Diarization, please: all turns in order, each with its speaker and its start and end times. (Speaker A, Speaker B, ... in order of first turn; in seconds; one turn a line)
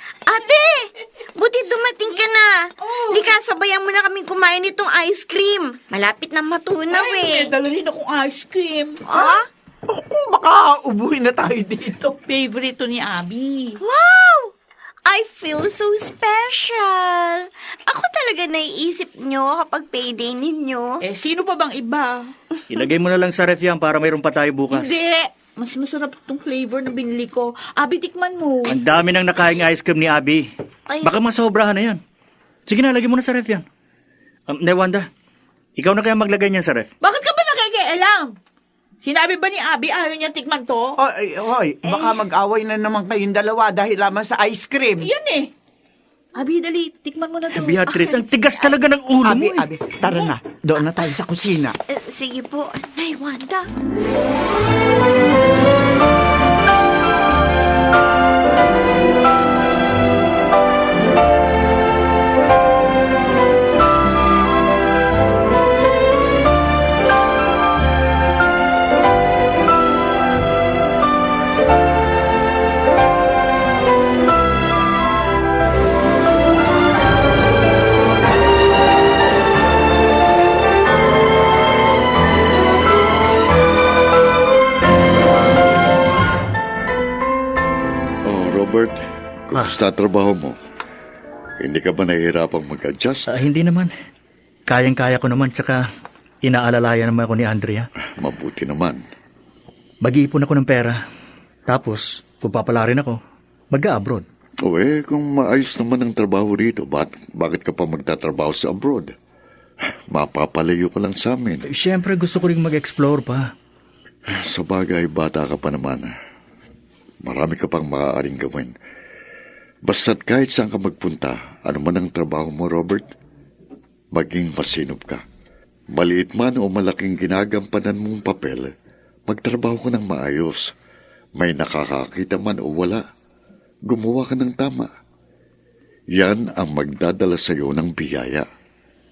Speaker A: 0.2-7.5
Speaker B: 2.9-3.3
Speaker B: 6.9-9.0
Speaker A: 9.1-9.5
Speaker C: 9.1-12.1
Speaker B: 12.2-13.8
Speaker A: 13.8-14.5
Speaker A: 15.0-21.0
Speaker B: 21.0-22.3
Speaker D: 22.7-25.0
Speaker B: 24.7-28.8
Speaker D: 28.7-30.4
Speaker D: 31.0-32.0
Speaker D: 32.7-33.6
Speaker D: 34.5-35.1
Speaker D: 35.8-36.9
Speaker B: 37.0-38.4
Speaker B: 39.0-41.0
Speaker C: 41.0-45.0
Speaker B: 45.0-45.5
Speaker B: 46.3-47.8
Speaker D: 47.5-49.7
Speaker A: 47.9-48.7
Speaker C: 49.2-51.8
Speaker A: 51.9-53.7
Speaker E: 88.2-90.5
Speaker E: 91.6-93.4
Speaker D: 93.3-93.9
Speaker D: 94.7-95.8
Speaker D: 96.4-97.9
Speaker E: 98.2-99.0
Speaker D: 100.0-101.0
Speaker D: 101.7-103.2
Speaker D: 103.7-104.2
Speaker E: 104.6-109.1
Speaker E: 110.1-111.6
Speaker D: 111.7-113.5
Speaker E: 114.3-116.1
Speaker E: 117.2-118.7
Speaker E: 119.8-123.1
Speaker E: 124.1-125.2
Speaker E: 125.9-128.7
Speaker E: 129.3-130.7
Speaker E: 131.4-133.0
Speaker E: 133.9-134.9
Speaker E: 136.1-138.4